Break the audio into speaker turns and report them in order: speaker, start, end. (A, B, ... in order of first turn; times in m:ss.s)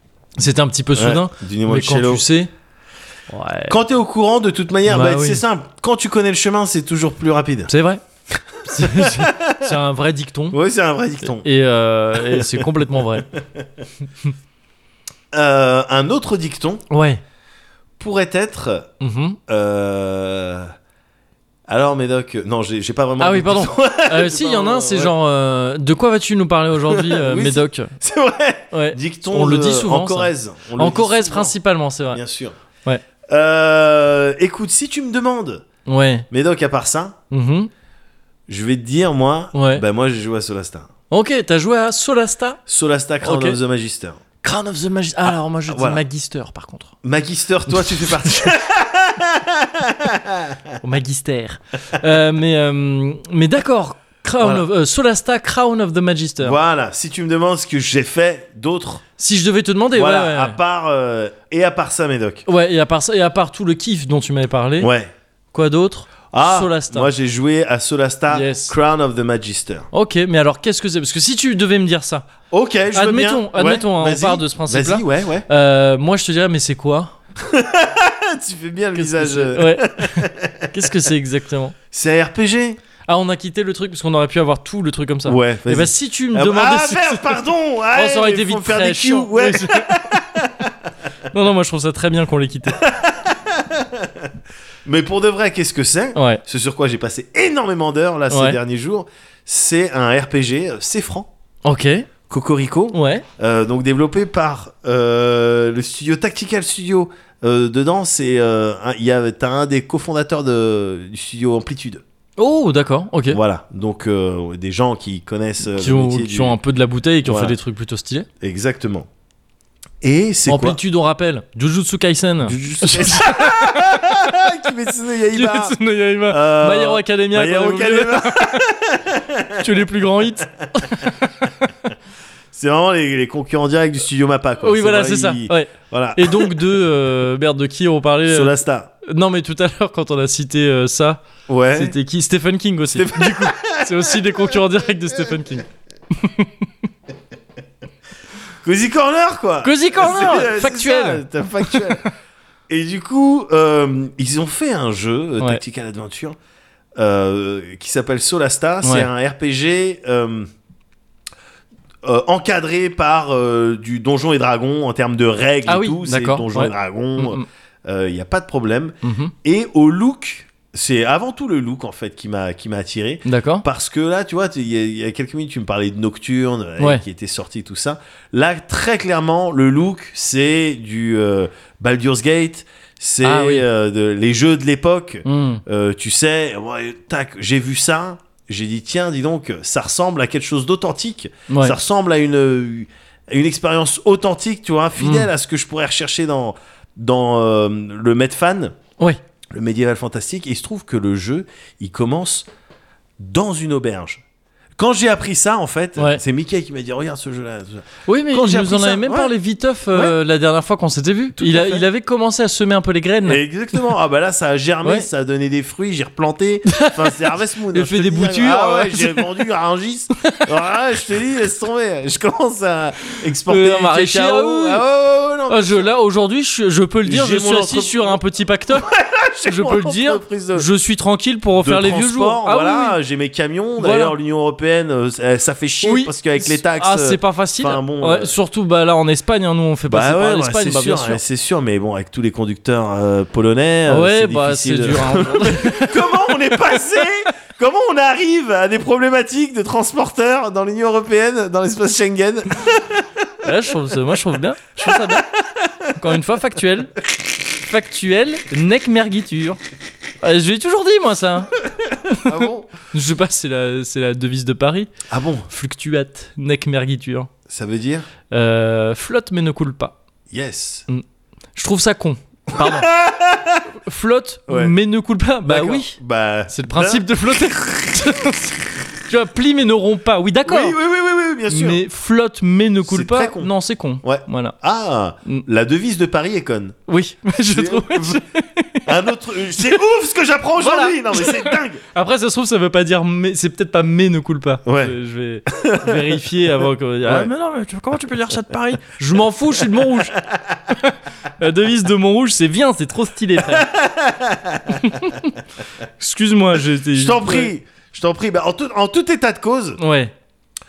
0:00.4-0:02.5 A
0:01.0-0:02.2 B
0:03.3-0:03.8 A
0:03.7-0:07.7 B
0:04.9-0:05.4 A
0:07.7-0:08.0 A
0:08.6-0:10.6 A
0:08.6-0:09.7 B
0:10.5-0:11.5 B
0:11.4-0:13.3 A
0:12.2-0:12.6 B
0:13.4-0:13.6 B
0:15.3-0:16.8 B
0:16.9-0:17.2 A
0:18.0-0:18.9 B
0:19.0-0:19.4 A
0:19.5-0:20.7 B
0:21.7-0:25.1 B
0:23.2-0:27.9 A
0:26.8-0:31.6 B
0:28.7-0:32.2 A
0:32.1-0:32.6 B
0:33.3-0:35.6 B
0:35.9-0:36.3 A
0:36.3-0:37.2 B
0:37.3-0:37.7 A
0:38.5-0:40.9 B
0:39.5-0:39.8 A
0:41.1-0:42.6 A
0:42.7-0:44.2 B
0:43.2-0:43.6 A
0:44.4-0:46.9 A
0:45.7-0:46.0 B
0:47.0-0:50.8 B
0:47.7-0:48.5 A
0:50.8-0:56.6 A
0:56.4-0:59.0 B
0:59.2-1:00.6 A
0:59.9-1:02.5 B
1:02.5-1:04.9 A
1:04.8-1:05.1 B
1:05.5-1:07.1 A
1:06.3-1:09.9 B
1:08.3-1:08.8 A
1:09.9-1:12.3 A
1:12.5-1:15.5 B
1:12.9-1:17.2 A
1:17.4-1:20.9 B
1:19.0-1:21.8 A
1:21.9-1:22.8 B
1:23.1-1:27.4 A
1:25.3-1:30.7 B
1:27.9-1:30.0 A
1:31.3-1:32.8 A
1:32.8-1:34.3 B
1:34.8-1:41.3 B
1:36.2-1:36.4 A
1:38.3-1:38.6 A
1:41.6-1:42.1 A
1:42.3-1:52.0 B
1:42.9-1:43.2 A
1:52.4-1:53.4 A
1:53.3-1:56.6 B
1:55.7-1:58.3 A
1:57.2-1:57.6 B
1:58.4-1:59.1 B
2:00.0-2:00.8 B
2:00.5-2:04.0 A
2:02.4-2:05.8 B
2:05.3-2:08.6 A
2:06.3-2:09.7 B
2:09.6-2:11.6 A
2:12.5-2:16.8 B
2:14.6-2:26.5 A
2:18.3-2:18.9 B
2:21.5-2:22.0 B
2:22.9-2:24.6 B
2:28.6-2:32.1 B
2:29.6-2:32.0 A
2:32.7-2:36.4 B
2:37.0-2:40.5 B
2:38.8-2:39.1 A
2:42.0-3:18.8 B
2:45.7-2:47.4 A
2:49.0-2:49.3 A
2:53.2-2:53.7 A
3:03.2-3:03.7 A
3:05.2-3:05.6 A
3:11.5-3:11.8 A
3:15.0-3:15.3 A
3:19.5-3:22.5 B
3:23.2-3:24.2 B
3:24.8-3:29.3 B
3:28.1-3:33.4 A
3:31.4-3:31.8 B
3:33.2-3:45.9 B
3:36.7-3:39.3 A
3:43.3-3:44.8 A
3:45.5-3:48.9 A
3:47.0-3:50.7 B
3:49.4-3:53.0 A
3:51.6-3:58.4 B
3:53.8-3:54.2 A
3:55.8-4:01.2 A
3:59.9-4:13.0 B
4:03.9-4:06.2 A
4:13.4-4:15.3 A
4:14.8-4:15.9 B
4:16.0-4:19.6 A
4:20.2-4:21.5 A
4:22.1-4:22.7 B
4:22.1-4:24.9 A
4:25.1-4:25.5 B
4:25.5-4:27.3 A
4:27.5-4:28.1 B
4:28.3-4:30.0 A
4:30.3-4:30.9 B
4:31.6-4:32.9 A
4:32.6-4:33.7 B
4:33.8-4:36.0 A
4:34.5-4:34.8 B
4:35.4-4:37.6 B
4:36.5-4:40.8 A
4:40.4-4:41.8 B
4:41.5-4:44.6 A
4:42.9-4:43.5 B
4:44.0-4:46.8 B
4:46.9-4:48.9 A
4:47.5-4:48.2 B
4:48.8-4:51.8 B
4:50.6-5:03.7 A
4:54.6-4:55.0 B
4:55.5-4:56.2 B
4:57.0-4:57.3 B
4:59.9-5:00.6 B
5:03.4-5:05.0 B
5:04.7-5:05.3 A
5:06.0-5:07.5 A
5:06.9-5:09.8 B
5:09.8-5:10.1 A